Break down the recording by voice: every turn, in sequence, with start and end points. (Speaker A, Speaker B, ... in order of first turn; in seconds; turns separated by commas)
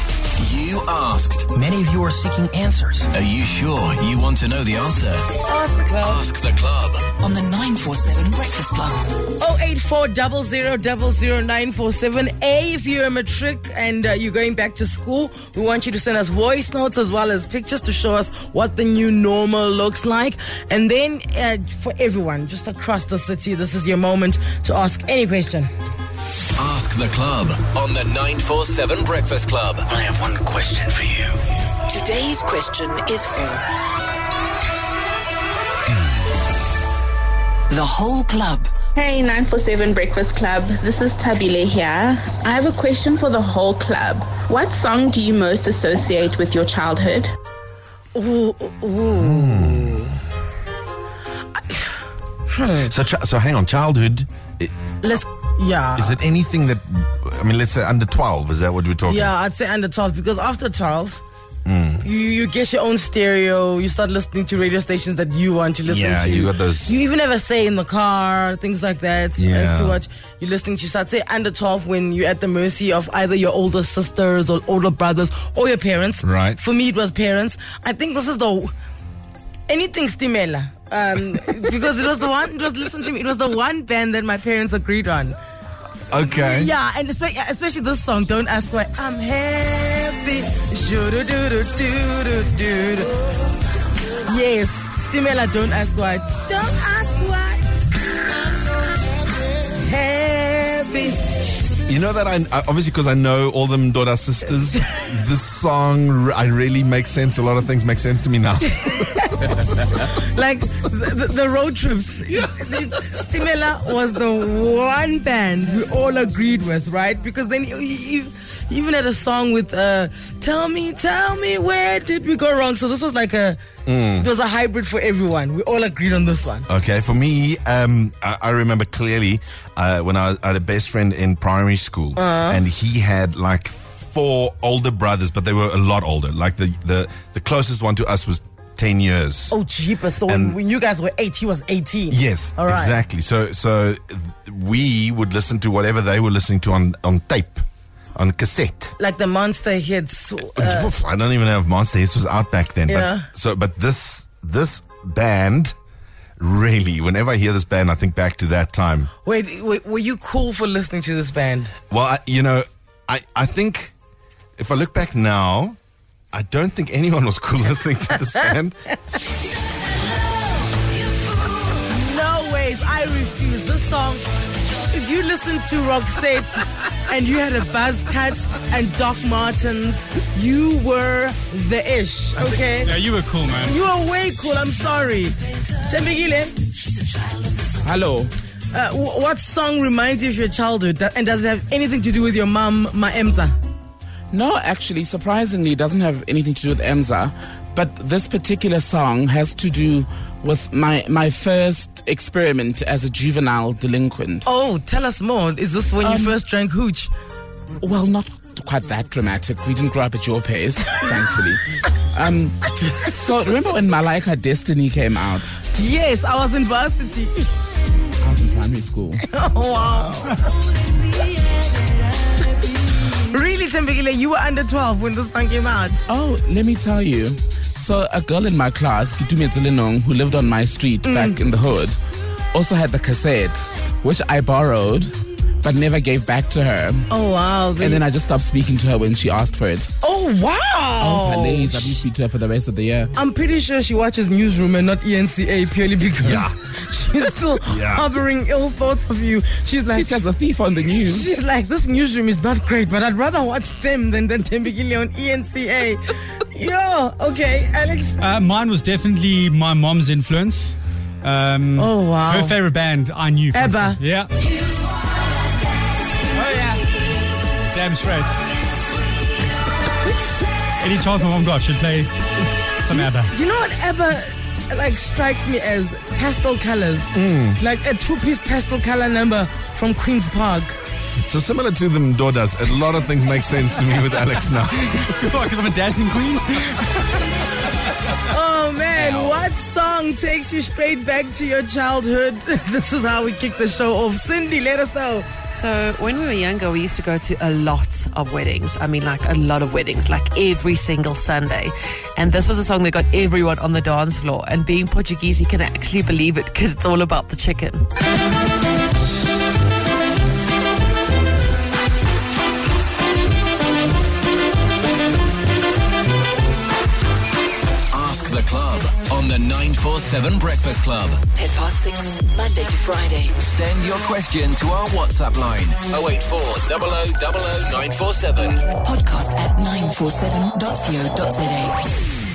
Speaker A: 0.4-1.5, Speaker B: 1.6-3.0, Speaker A: 3.1-5.3, Speaker C: 5.5-6.2, Speaker A: 6.0-7.0, Speaker D: 7.2-9.0, Speaker C: 9.4-25.7, Speaker A: 26.6-29.9, Speaker B: 30.0-31.3, Speaker D: 31.9-33.7, Speaker D: 37.7-38.7, Speaker E: 39.0-47.3, Speaker C: 48.1-50.0, Speaker F: 49.2-50.1, Speaker C: 52.5-52.9, Speaker F: 52.9-54.7, Speaker C: 55.0-56.2, Speaker F: 56.0-59.3, Speaker C: 59.1-61.2, Speaker F: 61.7-62.1, Speaker C: 62.0-78.7, Speaker F: 65.9-67.0, Speaker F: 69.4-70.0, Speaker F: 76.2-76.6, Speaker C: 79.7-85.4, Speaker F: 86.1-86.7, Speaker C: 86.3-93.2, Speaker C: 94.3-97.7, Speaker C: 99.8-101.2, Speaker F: 101.9-108.8, Speaker C: 108.8-123.6, Speaker F: 123.9-124.3, Speaker C: 124.2-126.7, Speaker F: 126.7-139.6, Speaker C: 132.2-132.6, Speaker C: 139.5-143.0, Speaker F: 140.3-140.6, Speaker F: 142.1-147.6, Speaker F: 148.2-148.9, Speaker C: 149.0-150.9, Speaker F: 150.6-155.7, Speaker C: 152.9-153.3, Speaker F: 156.4-159.1, Speaker C: 159.2-161.7, Speaker F: 161.9-163.9, Speaker F: 164.6-165.8, Speaker F: 166.3-168.8, Speaker C: 171.7-174.3, Speaker C: 174.9-182.9, Speaker G: 182.8-183.8, Speaker C: 183.6-186.6, Speaker H: 187.8-188.3, Speaker C: 188.7-193.6, Speaker H: 194.3-204.5, Speaker C: 204.5-207.1, Speaker H: 206.0-206.4, Speaker H: 207.8-215.6, Speaker C: 215.8-217.5, Speaker H: 218.2-219.2, Speaker C: 219.3-220.4, Speaker C: 223.1-226.1, Speaker H: 226.1-232.0, Speaker C: 231.0-231.4, Speaker H: 232.5-237.1, Speaker C: 237.1-238.0, Speaker H: 237.8-239.9, Speaker C: 240.0-242.0, Speaker H: 241.0-243.1, Speaker C: 243.2-250.2, Speaker F: 246.2-246.6, Speaker F: 247.7-248.1, Speaker H: 249.9-251.3, Speaker C: 251.1-258.2, Speaker G: 258.2-264.3, Speaker C: 261.8-262.6, Speaker C: 263.5-264.0, Speaker G: 266.3-266.8, Speaker G: 267.7-268.4, Speaker G: 270.8-272.1, Speaker G: 272.8-273.3, Speaker C: 272.9-280.8, Speaker F: 277.1-277.6, Speaker F: 281.2-284.9, Speaker G: 284.8-287.6, Speaker C: 288.3-295.3, Speaker H: 288.9-289.5, Speaker I: 295.5-307.9, Speaker A: 317.9-321.3, Speaker D: 321.3-323.4, Speaker A: 323.4-328.7, Speaker D: 328.8-331.8